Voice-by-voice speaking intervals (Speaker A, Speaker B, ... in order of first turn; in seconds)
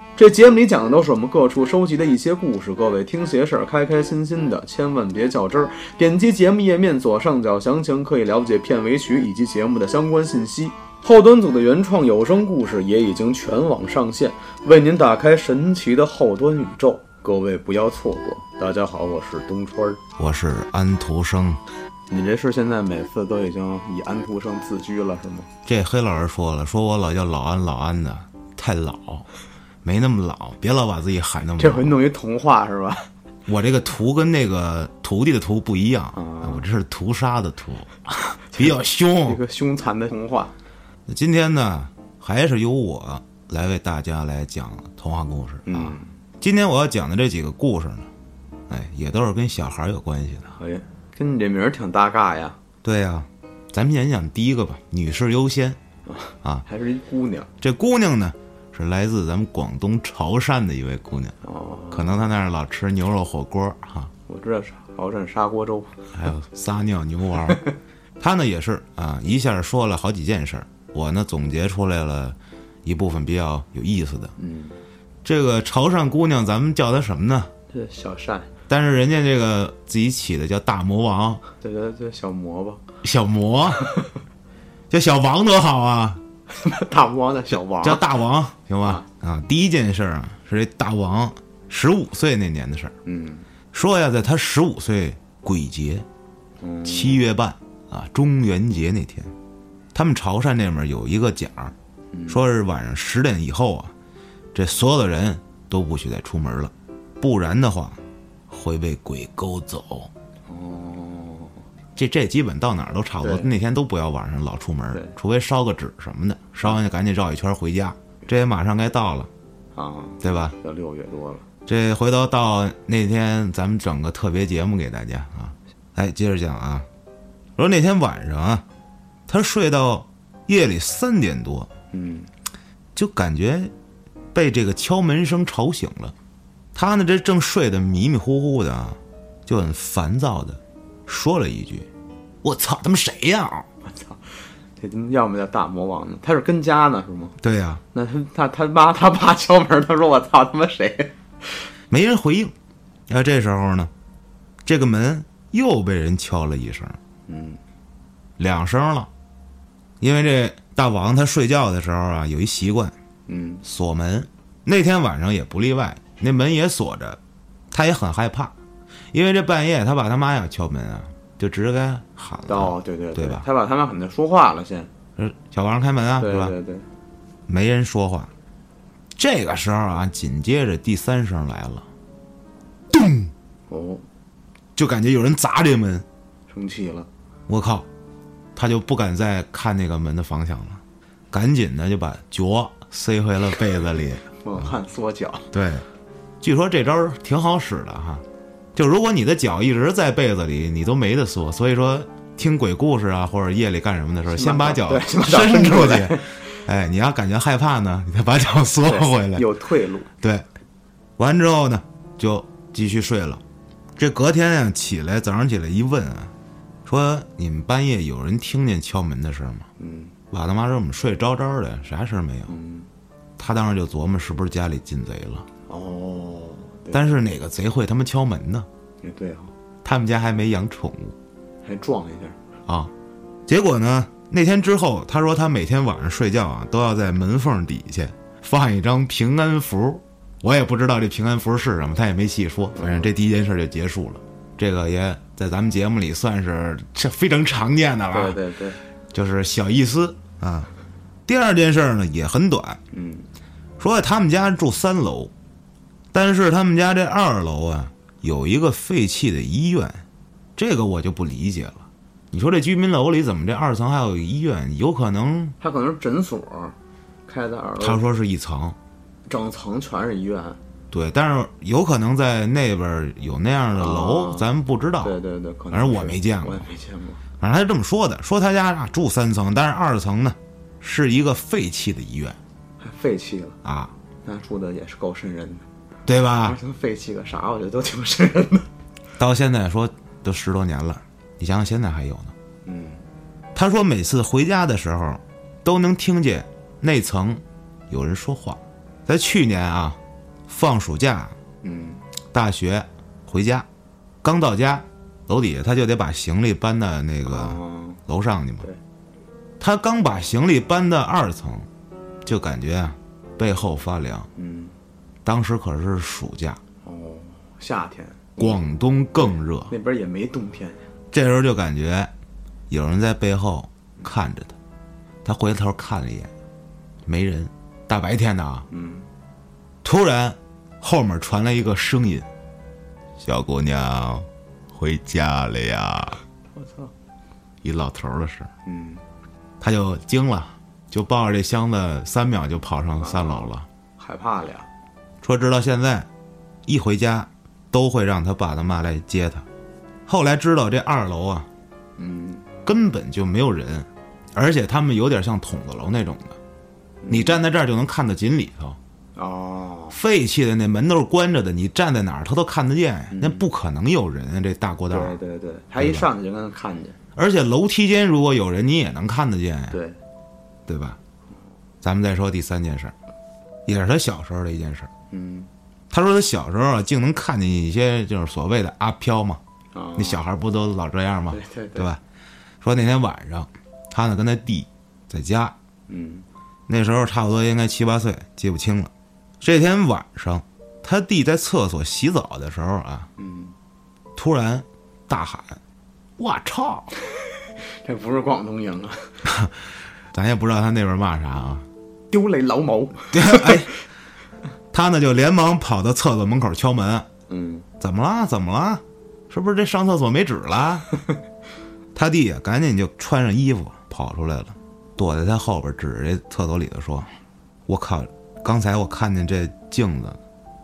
Speaker A: 0.2-20.0, 22.1-25.5, 31.6-33.1, 36.1-36.6, 38.3-40.5, 45.7-46.2, 50.6-52.6, 56.1-57.5, 61.4-62.2, 64.3-66.1, 67.4-67.8, 74.4-74.8, 77.7-78.5, 81.6-82.8, 83.8-84.1, 86.5-88.1, 93.0-93.5, 96.6-97.2, 102.1-102.4, 110.5-111.6, 113.2-113.5, 119.8-121.5, 131.9-132.3, 143.8-147.4, 147.9-151.7, 157.3-157.6, 163.3-163.6, 172.5-174.9, 176.2-176.9, 183.7-184.1, 186.5-187.1, 194.4-195.5, 204.3-206.6, 208.8-210.1, 219.8-220.1, 222.5-222.9, 225.7-227.1, 229.0-229.5, 231.6-232.4, 242.8-243.1, 248.1-248.8, 252.9-253.3, 265.6-266.8, 267.3-268.0, 269.3-270.6, 273.8-274.5, 275.0-277.2, 282.8-283.6, 284.2-285.7, 286.4-288.7, 292.6-293.0, 301.6-302.0, 307.3-308.0, 314.4-314.8, 316.8-318.6, 319.7-320.8, 328.7-329.1, 336.6-336.9, 338.6-339.0, 343.0-344.7, 352.0-352.5, 357.0-357.4, 359.2-360.0, 363.1-363.5, 364.9-367.0, 369.7-370.0, 375.1-375.5, 379.7-380.2, 381.3-381.9, 385.9-386.3, 393.2-393.6, 397.1-399.3, 402.1-403.8, 407.3-407.7
Speaker B: 20.2-21.6, 25.7-29.3, 29.8-31.9, 33.5-39.4, 41.1-48.1, 48.7-50.5, 52.8-55.8, 57.6-61.4, 61.9-64.1, 66.1-67.6, 68.2-74.3, 75.2-77.5, 78.7-81.4, 83.0-83.9, 84.9-86.2, 87.8-92.9, 93.7-96.1, 96.8-99.3, 99.9-101.8, 102.3-103.9, 104.5-110.1, 112.0-119.3, 120.2-120.6, 121.7-126.9, 127.6-128.7, 129.3-131.7, 132.9-133.7, 134.3-136.2, 136.8-141.9, 142.4-143.7, 147.4-147.8, 151.9-152.5, 153.1-153.9, 154.7-157.0, 158.4-159.1, 160.0-162.9, 163.6-167.2, 167.7-168.5, 169.1-173.5, 175.2-176.6, 177.5-178.3, 179.2-181.9, 182.9-183.3, 184.8-186.1, 187.5-187.9, 188.6-194.7, 195.5-195.8, 196.4-198.2, 198.8-209.5, 210.2-210.5, 211.2-213.4, 214.0-216.3, 216.8-219.7, 220.3-222.5, 223.4-225.5, 226.9-228.7, 229.8-231.2, 232.7-232.9, 233.5-248.4, 249.1-250.7, 251.3-252.8, 253.8-255.3, 256.1-260.0, 260.6-265.6, 267.8-268.8, 270.9-275.2, 275.7-276.7, 277.4-282.4, 283.6-283.9, 286.1-286.6, 289.2-292.3, 293.6-301.4, 302.3-303.7, 304.2-308.7, 309.6-311.7, 312.2-314.3, 315.2-316.6, 318.4-319.7, 321.1-322.1, 322.7-324.6, 325.2-326.3, 327.1-328.6, 329.8-332.3, 333.2-336.2, 337.6-338.5, 339.6-343.7, 345.2-346.1, 346.7-349.5, 350.1-351.5, 352.6-356.4, 357.1-358.8, 359.9-365.2, 365.8-366.1, 367.1-369.8, 370.7-371.0, 371.8-372.9, 373.7-374.9, 375.9-379.4, 380.0-382.0, 382.6-385.6, 386.7-393.1, 394.2-395.6, 396.2-396.9, 399.3-399.5, 400.1-401.7, 403.1-403.7, 404.7-407.1, 407.8-410.9, 411.9-417.1, 417.7-420.2